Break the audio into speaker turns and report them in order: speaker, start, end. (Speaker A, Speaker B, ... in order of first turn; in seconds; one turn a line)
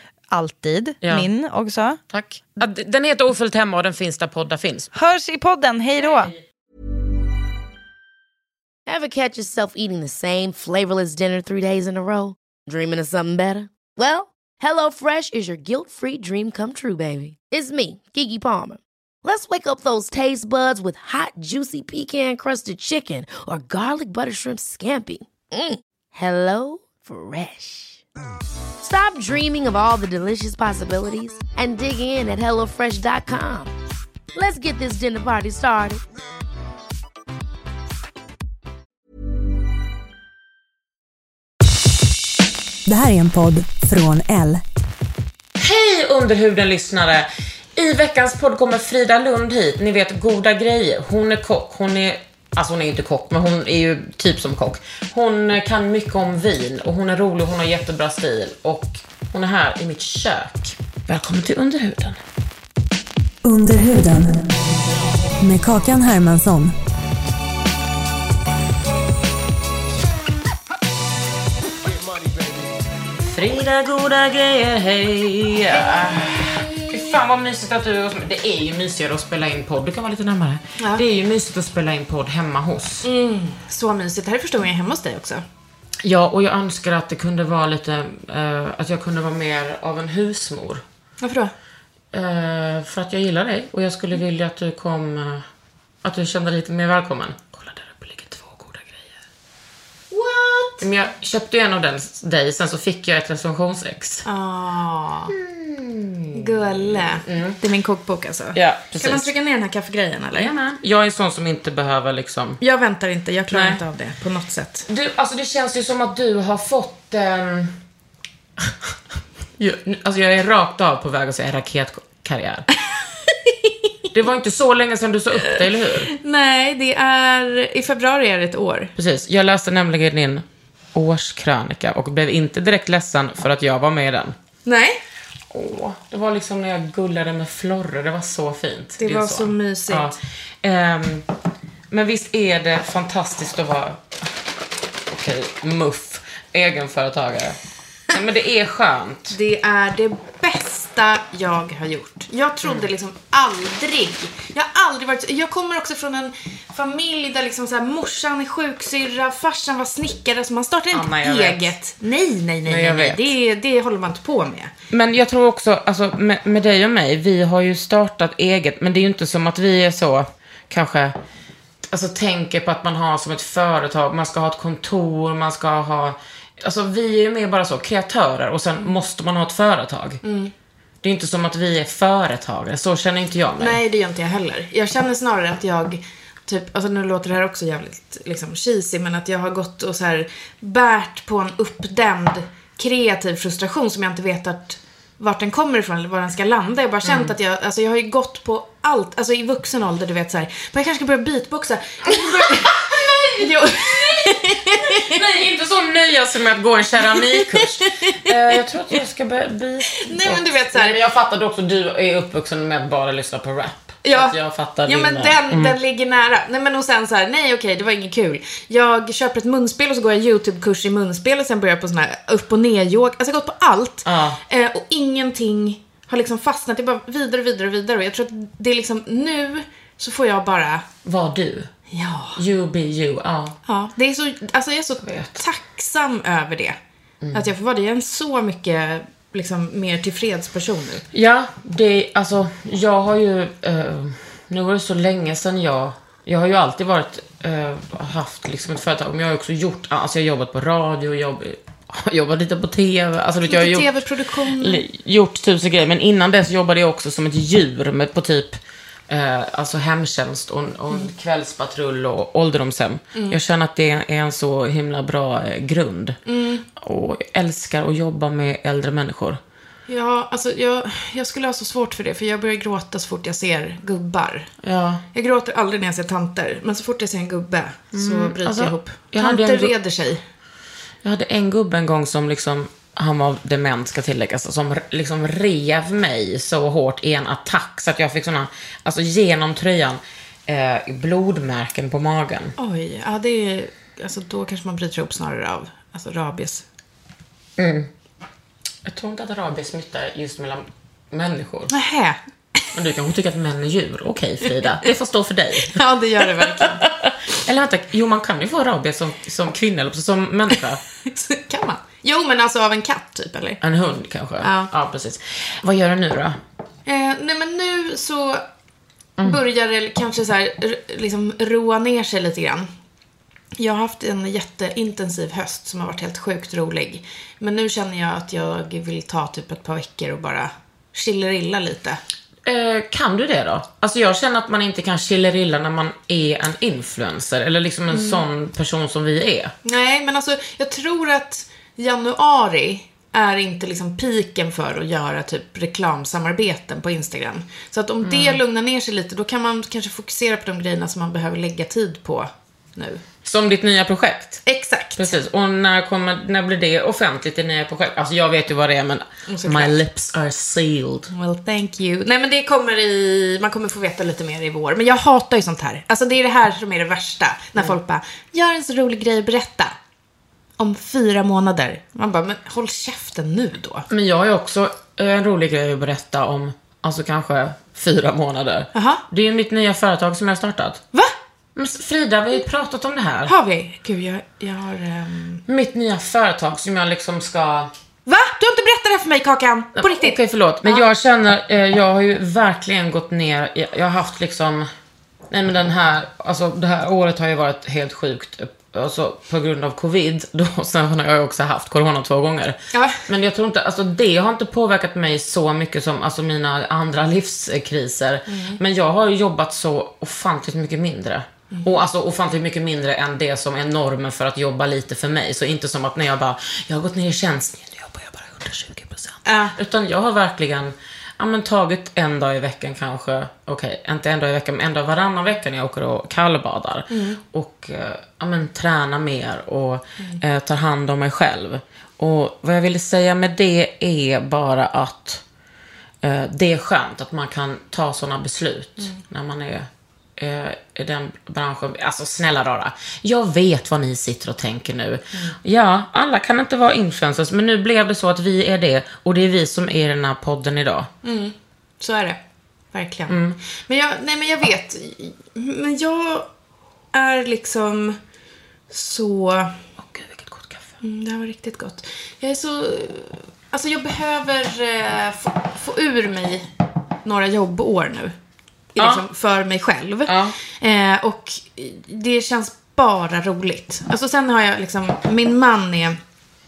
Speaker A: 0.3-2.0
Speaker B: 1.0-1.3
Speaker B: 2.1-4.9
Speaker A: 4.9-6.3
Speaker C: 8.8-28.0
Speaker C: 28.8-33.7
Speaker C: 34.3-36.0
Speaker D: 42.9-44.6
Speaker B: 45.6-62.2
Speaker D: 63.4-64.4
Speaker D: 65.4-66.7
Speaker B: 73.2-83.1
Speaker E: 83.0-85.4
Speaker B: 86.0-90.8
Speaker E: 91.2-91.5
Speaker B: 92.1-95.4
Speaker B: 96.0-99.1
Speaker E: 100.1-100.8
Speaker B: 100.8-104.2
Speaker E: 104.2-105.3
Speaker B: 105.3-107.6
Speaker E: 106.3-110.5
Speaker B: 108.5-109.3
Speaker B: 110.3-112.6
Speaker E: 112.6-114.8
Speaker B: 113.5-113.8
Speaker B: 114.9-117.7
Speaker B: 119.6-122.7
Speaker E: 123.3-123.7
Speaker B: 124.1-126.1
Speaker E: 125.5-128.9
Speaker B: 128.9-134.3
Speaker E: 134.6-135.0
Speaker B: 135.5-141.2
Speaker E: 139.0-140.1
Speaker B: 141.9-144.0
Speaker B: 145.1-147.6
Speaker B: 148.1-149.4
Speaker E: 149.3-164.7
Speaker B: 152.6-152.9
Speaker B: 160.9-161.7
Speaker B: 162.7-163.3
Speaker B: 164.9-171.2
Speaker B: 171.9-180.2
Speaker E: 180.2-180.5
Speaker B: 181.0-183.8
Speaker E: 183.6-205.2
Speaker B: 197.0-197.3
Speaker B: 202.8-203.4
Speaker B: 204.1-215.7
Speaker E: 207.1-208.1
Speaker E: 209.9-211.0
Speaker E: 214.0-230.8
Speaker B: 224.0-224.4
Speaker B: 231.0-231.7
Speaker E: 231.9-232.4
Speaker B: 232.3-233.6
Speaker E: 233.7-236.8
Speaker B: 235.0-235.4
Speaker B: 237.2-237.5
Speaker E: 237.3-241.0
Speaker B: 241.1-253.9
Speaker E: 253.4-254.8
Speaker B: 254.6-258.6
Speaker B: 259.1-266.2
Speaker E: 266.3-266.6
Speaker B: 266.8-269.4
Speaker E: 269.9-274.5
Speaker B: 274.6-275.0
Speaker E: 275.1-280.2
Speaker B: 277.9-279.7
Speaker B: 281.0-292.5
Speaker E: 292.6-296.6
Speaker B: 297.6-297.9
Speaker B: 298.8-301.7
Speaker E: 301.7-302.2
Speaker B: 302.7-305.8
Speaker E: 305.6-306.9
Speaker B: 306.4-310.8
Speaker E: 311.0-313.6
Speaker B: 313.6-316.4
Speaker E: 314.4-314.7
Speaker E: 316.9-318.4
Speaker E: 319.2-322.7
Speaker E: 323.6-332.0
Speaker B: 332.4-339.5
Speaker E: 337.9-338.2
Speaker E: 339.6-353.0
Speaker B: 348.0-348.4
Speaker B: 353.2-354.4
Speaker E: 354.4-355.0
Speaker B: 354.9-361.1
Speaker E: 359.3-359.8
Speaker E: 361.1-369.7
Speaker E: 370.6-373.9
Speaker B: 373.9-380.8
Speaker E: 378.7-379.0
Speaker B: 381.6-383.3
Speaker E: 383.2-385.4
Speaker B: 385.5-387.7
Speaker E: 388.1-390.8
Speaker B: 389.8-394.7
Speaker B: 395.3-435.2
Speaker E: 402.7-403.0
Speaker E: 408.3-408.6
Speaker E: 411.5-411.8
Speaker E: 419.2-419.6
Speaker E: 426.9-427.2
Speaker B: 436.0-450.9
Speaker E: 451.0-452.2
Speaker E: 452.7-456.3
Speaker B: 453.1-453.4
Speaker E: 456.9-458.0
Speaker E: 458.7-459.6
Speaker B: 459.8-460.7
Speaker E: 460.8-466.5
Speaker E: 467.0-468.1
Speaker E: 468.7-476.0
Speaker B: 468.8-469.1
Speaker B: 470.1-470.4